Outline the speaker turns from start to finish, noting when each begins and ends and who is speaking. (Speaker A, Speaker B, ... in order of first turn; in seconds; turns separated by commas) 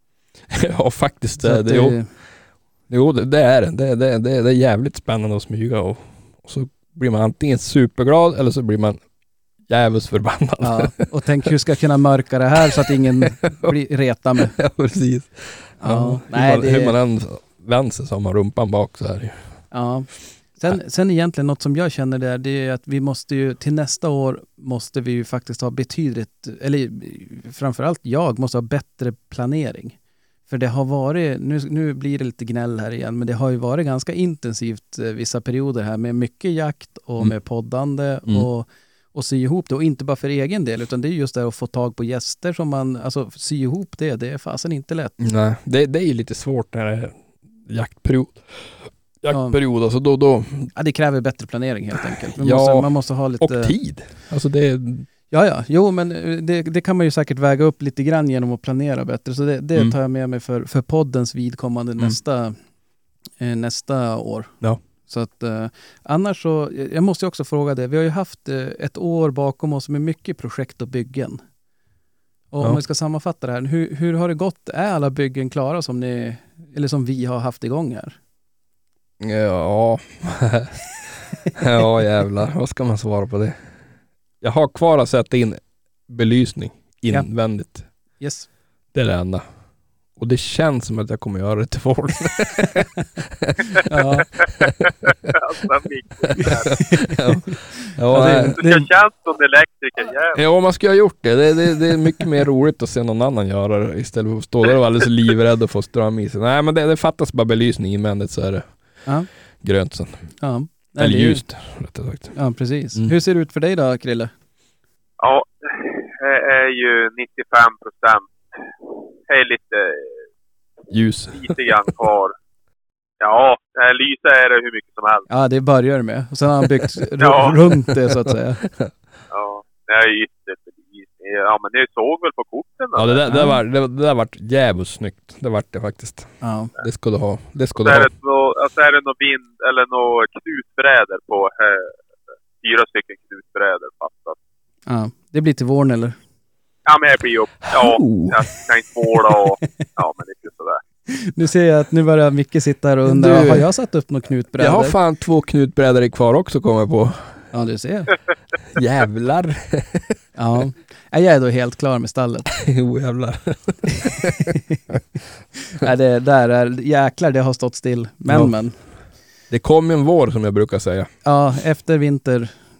Speaker A: 0.5-2.0, Speaker B: 1.4-2.1, Speaker A: 2.9-9.0, Speaker A: 9.7-11.1, Speaker B: 10.6-14.6, Speaker A: 12.8-13.7, Speaker A: 14.4-19.5, Speaker B: 15.8-17.0, Speaker B: 19.7-30.0, Speaker B: 30.5-45.1, Speaker A: 45.2-50.7, Speaker B: 49.3-49.6, Speaker B: 50.8-53.8, Speaker A: 52.2-55.1, Speaker B: 55.3-62.6, Speaker B: 63.4-64.5, Speaker B: 65.1-71.4, Speaker B: 72.5-78.2, Speaker A: 79.2-83.6, Speaker A: 84.4-87.9, Speaker B: 88.2-88.5, Speaker A: 88.9-89.4, Speaker A: 90.2-94.0, Speaker B: 93.7-94.3, Speaker C: 94.4-96.8, Speaker A: 94.6-95.3, Speaker A: 96.4-98.6, Speaker B: 97.8-98.9, Speaker C: 98.6-100.4, Speaker A: 100.3-108.7, Speaker A: 109.6-110.3, Speaker B: 110.4-111.5, Speaker A: 111.0-112.4, Speaker B: 112.4-114.3, Speaker C: 115.2-118.6, Speaker C: 119.3-120.2, Speaker A: 120.9-121.8, Speaker C: 121.3-122.3, Speaker C: 123.2-125.3, Speaker B: 125.3-128.6, Speaker C: 127.2-127.6, Speaker A: 128.3-128.9, Speaker C: 129.3-133.3, Speaker A: 132.9-138.1, Speaker B: 133.3-133.6, Speaker B: 136.4-136.7, Speaker C: 137.8-142.0, Speaker C: 142.6-144.4, Speaker B: 144.9-146.2, Speaker C: 146.9-150.8, Speaker A: 147.7-148.4, Speaker B: 151.1-155.0, Speaker A: 153.1-153.7, Speaker A: 154.6-157.4, Speaker B: 157.5-158.1, Speaker A: 158.7-160.2, Speaker B: 160.4-162.5, Speaker A: 162.5-165.0, Speaker B: 164.0-164.8, Speaker B: 165.6-168.8, Speaker A: 168.3-168.5, Speaker A: 169.5-171.1, Speaker B: 171.2-172.5